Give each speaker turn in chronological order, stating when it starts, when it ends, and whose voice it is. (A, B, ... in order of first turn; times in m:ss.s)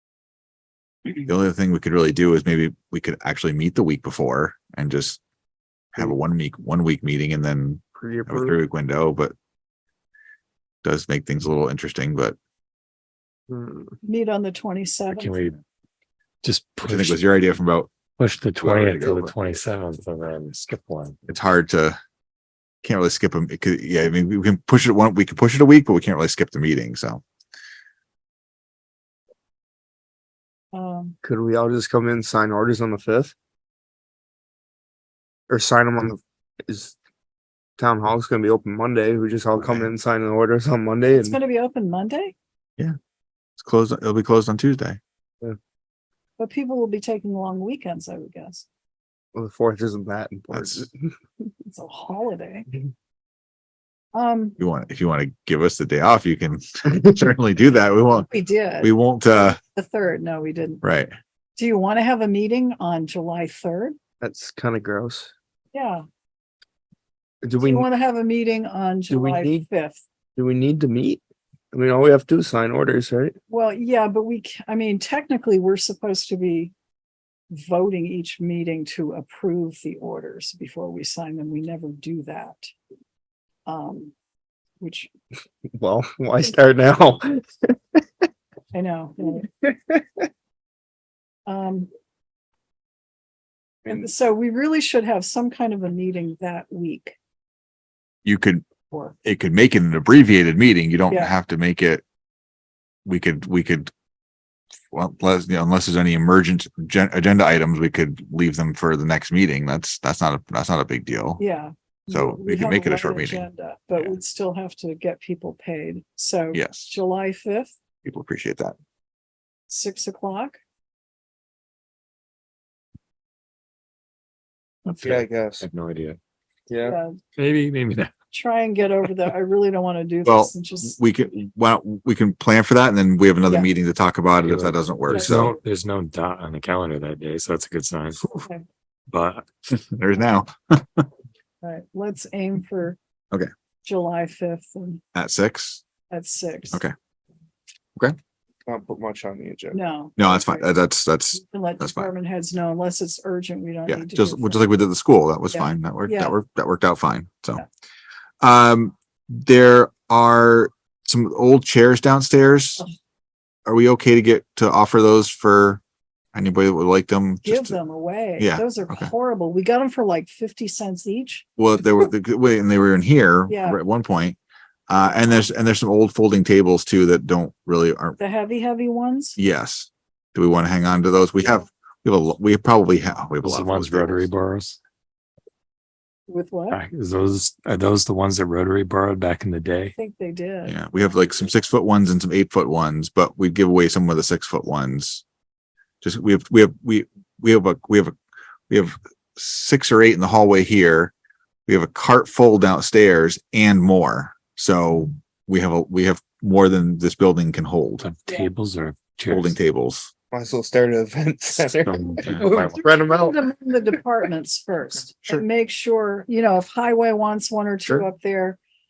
0:01.2-0:05.2 A
0:05.9-0:09.3 A
0:08.0-0:08.6 B
0:10.8-0:12.4 A
0:13.5-0:14.0 B
0:14.0-0:15.5 C
0:15.1-0:15.6 D
0:16.4-0:17.2 D
0:16.8-0:17.9 A
0:18.2-0:21.2 D
0:18.6-0:19.4 A
0:21.3-0:22.0 A
0:22.8-0:27.2 A
0:30.7-0:31.2 C
0:31.2-0:33.3 B
0:35.5-0:37.0 B
0:37.8-0:41.4 B
0:39.6-0:39.9 A
0:41.1-0:42.4 C
0:43.6-0:45.0 A
0:46.4-0:48.6 C
0:49.3-0:51.1 B
0:50.5-0:50.9 A
0:51.7-0:52.8 C
0:54.1-0:54.6 C
0:54.6-0:58.3 A
0:58.1-0:59.0 C
0:58.8-0:59.6 A
0:59.6-1:00.8 C
1:00.8-1:01.1 A
1:01.6-1:04.0 C
1:04.2-1:05.3 B
1:05.7-1:06.0 C
1:07.4-1:07.9 B
1:07.6-1:10.0 C
1:09.1-1:09.6 B
1:10.4-1:13.4 B
1:13.5-1:16.7 C
1:17.5-1:22.7 C
1:23.7-1:24.1 C
1:24.8-1:25.1 C
1:25.7-1:27.8 B
1:28.7-1:29.5 C
1:29.6-1:30.3 B
1:31.5-1:31.9 C
1:33.9-1:37.2 C
1:38.2-1:38.6 A
1:39.2-1:42.0 A
1:41.1-1:41.4 C
1:43.1-1:43.9 A
1:44.9-1:51.4 A
1:51.4-1:57.7 C
1:52.1-1:54.2 A
1:56.5-1:56.9 A
1:58.0-1:58.8 A
1:59.7-2:00.6 C
2:04.8-2:06.2 D
2:05.0-2:05.7 B
2:06.7-2:07.0 B
2:06.8-2:07.2 C
2:07.4-2:08.1 D
2:08.3-2:11.0 C
2:10.2-2:15.6 A
2:13.4-2:13.7 C
2:14.4-2:18.3 D
2:19.1-2:19.5 D
2:19.7-2:21.1 A
2:21.6-2:23.0 C
2:23.8-2:25.0 C
2:25.2-2:25.8 A
2:26.1-2:26.8 C
2:28.7-2:29.8 B
2:29.7-2:30.8 C
2:30.2-2:32.1 A
2:31.4-2:34.7 C
2:33.9-2:37.6 A
2:35.5-2:36.4 C
2:38.4-2:42.8 A
2:43.7-2:45.8 A
2:46.3-2:47.8 A
2:47.4-2:51.5 C
2:48.4-2:49.1 A
2:51.6-2:58.2 A
2:53.5-2:53.8 C
2:58.2-2:59.4 C
2:59.4-3:04.3 A
3:03.4-3:04.8 D
3:06.3-3:06.8 C
3:06.7-3:10.0 D
3:10.0-3:10.8 C
3:10.7-3:15.2 A
3:16.0-3:18.2 A
3:18.7-3:21.1 A
3:21.7-3:28.1 A
3:28.0-3:29.6 D
3:29.3-3:30.1 A
3:30.3-3:33.4 B
3:31.6-3:32.8 D
3:32.8-3:38.6 C